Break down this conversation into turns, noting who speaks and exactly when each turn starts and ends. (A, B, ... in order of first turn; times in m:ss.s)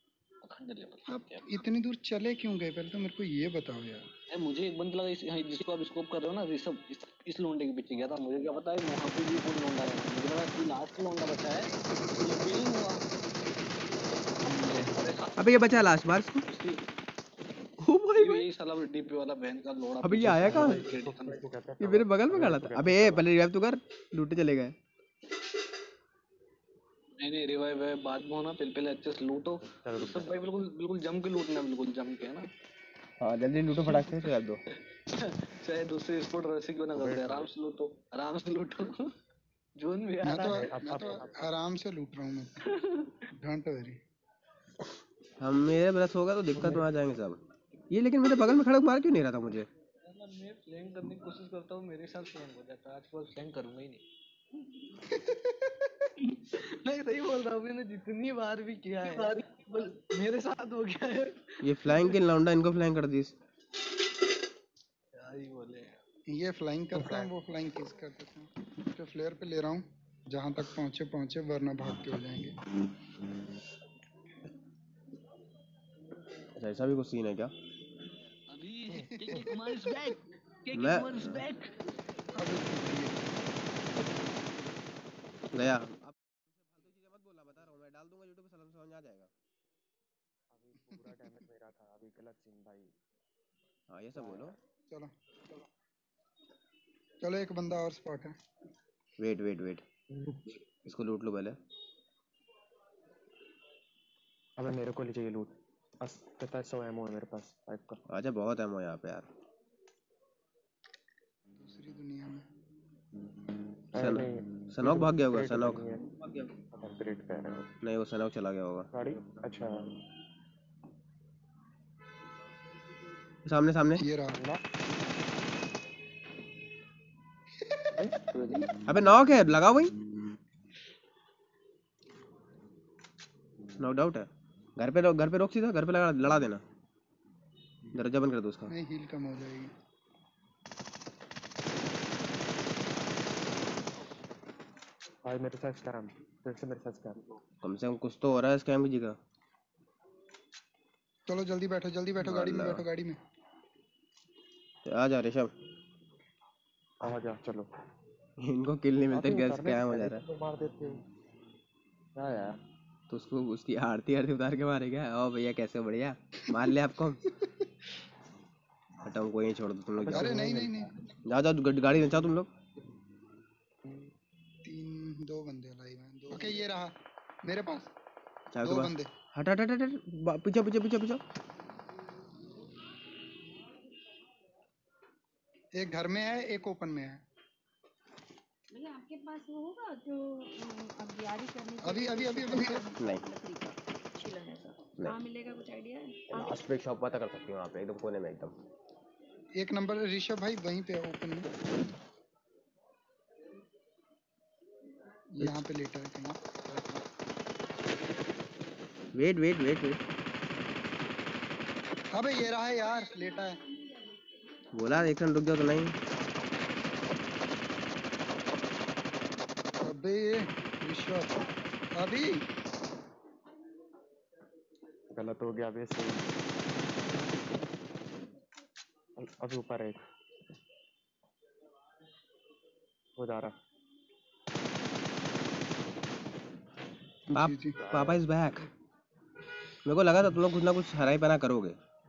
0:00.4-0:01.4 A
0:01.1-0:04.0 B
0:04.3-0:13.1 A
0:14.4-0:15.1 B
0:14.4-0:15.5 A
0:15.4-0:16.4 C
0:16.4-0:16.9 A
0:17.8-0:18.4 C
0:18.2-0:21.5 A
0:20.0-0:20.8 C
0:20.2-0:23.3 D
0:21.8-0:24.7 C
0:27.2-0:32.5 A
0:29.6-0:30.5 D
0:33.2-0:34.6 C
0:33.9-0:34.3 A
0:35.0-0:39.1 A
0:36.9-0:37.5 D
0:39.8-0:40.7 A
0:40.2-0:42.7 B
0:40.4-0:41.5 D
0:42.7-0:43.1 A
0:43.3-0:44.0 B
0:45.4-0:49.7 C
0:46.5-0:46.8 D
0:50.0-0:54.0 A
0:55.0-0:55.7 B
0:56.2-1:02.0 A
1:01.6-1:03.3 C
1:05.1-1:06.0 A
1:06.3-1:12.6 B
1:06.9-1:07.3 D
1:16.6-1:17.5 C
1:18.5-1:21.7 A
1:18.9-1:19.6 B
1:20.7-1:21.4 C
1:22.3-1:23.2 B
1:25.5-1:29.3 C
1:30.5-1:32.9 D
1:33.9-1:34.6 C
1:34.1-1:34.6 D
1:37.2-1:38.3 B
1:39.2-1:39.8 C
1:40.1-1:40.5 D
1:40.8-1:41.6 C
1:44.6-1:48.0 D
1:48.1-1:49.3 C
1:51.6-1:52.4 B
1:53.9-1:56.1 D
1:54.0-1:56.5 C
1:56.7-1:57.7 D
1:57.8-1:58.9 C
1:58.9-1:59.9 D
2:03.4-2:04.0 C
2:04.0-2:04.4 B
2:04.3-2:04.6 D
2:08.3-2:08.7 A
2:08.8-2:09.9 C
2:13.8-2:16.6 C
2:17.9-2:18.7 C
2:18.7-2:19.7 B
2:25.2-2:27.2 D
2:27.6-2:29.2 C
2:31.3-2:33.2 B
2:32.2-2:32.8 C
2:34.8-2:35.5 C
2:37.0-2:37.7 D
2:38.4-2:40.2 C
2:39.1-2:41.0 D
2:42.2-2:42.6 D
2:43.1-2:47.2 C
2:49.0-2:50.4 C
2:50.0-2:50.9 D
2:50.1-2:51.0 B
2:51.2-2:52.5 C
2:54.6-2:56.9 B
2:57.4-2:57.9 B
2:58.5-3:01.2 C
2:58.6-2:59.1 B
3:05.8-3:07.2 B
3:08.7-3:16.6 E
3:11.8-3:12.9 B
3:13.0-3:13.2 C
3:16.3-3:18.6 C
3:19.6-3:21.5 B
3:25.3-3:27.0 B
3:29.1-3:30.0 C
3:32.1-3:33.6 B
3:34.7-3:35.9 C
3:39.8-3:42.4 B
3:45.1-3:46.3 D
3:49.2-3:50.0 D
3:53.2-3:53.5 D
3:57.3-3:57.8 B
3:57.3-3:58.7 C
3:57.8-3:58.2 D
3:59.8-4:01.8 C